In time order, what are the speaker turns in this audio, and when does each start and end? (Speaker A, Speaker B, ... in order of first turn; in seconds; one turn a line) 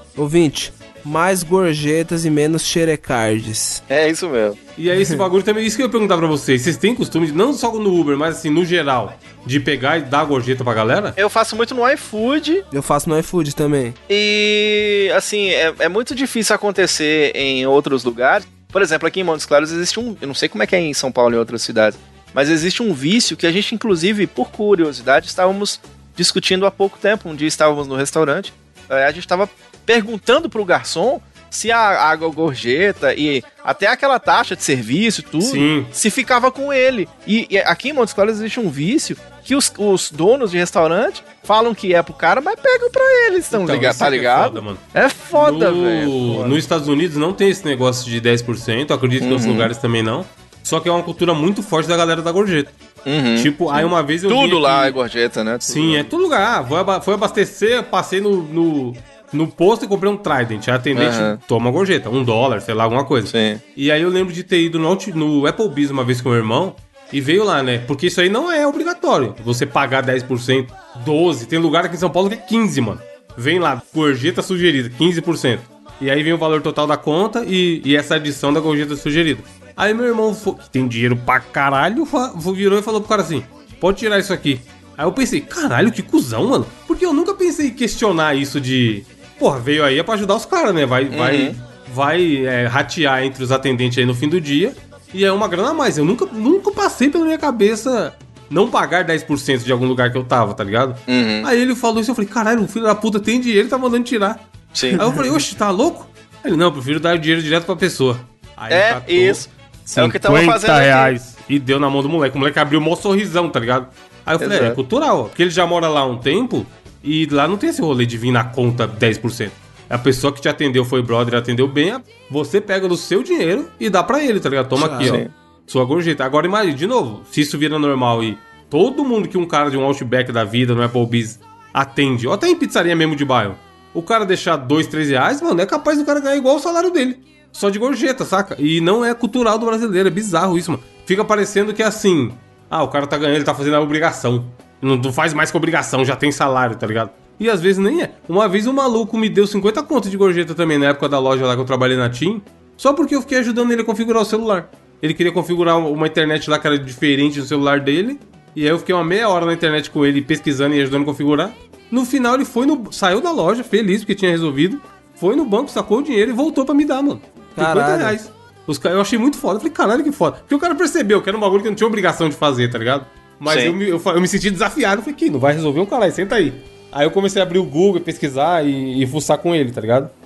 Speaker A: 0.1-3.8
Speaker B: 3.9-4.6
Speaker C: 4.8-11.2
Speaker A: 4.9-5.2
Speaker B: 11.2-12.6
Speaker A: 12.7-14.0
Speaker B: 14.1-46.6
Speaker C: 35.4-35.9
Speaker C: 43.5-44.8
Speaker C: 45.3-52.7
Speaker B: 49.2-49.7
Speaker B: 53.0-56.1
Speaker C: 53.4-55.0
Speaker C: 55.6-180.1
Speaker B: 60.9-61.4
Speaker B: 63.3-63.6
Speaker B: 91.1-91.5
Speaker B: 101.1-101.5
Speaker B: 104.7-105.0
Speaker A: 104.9-105.2
Speaker B: 108.7-111.1
Speaker B: 114.4-114.8
Speaker A: 124.7-125.2
Speaker B: 125.0-125.3
Speaker A: 167.6-168.2
Speaker B: 173.4-173.7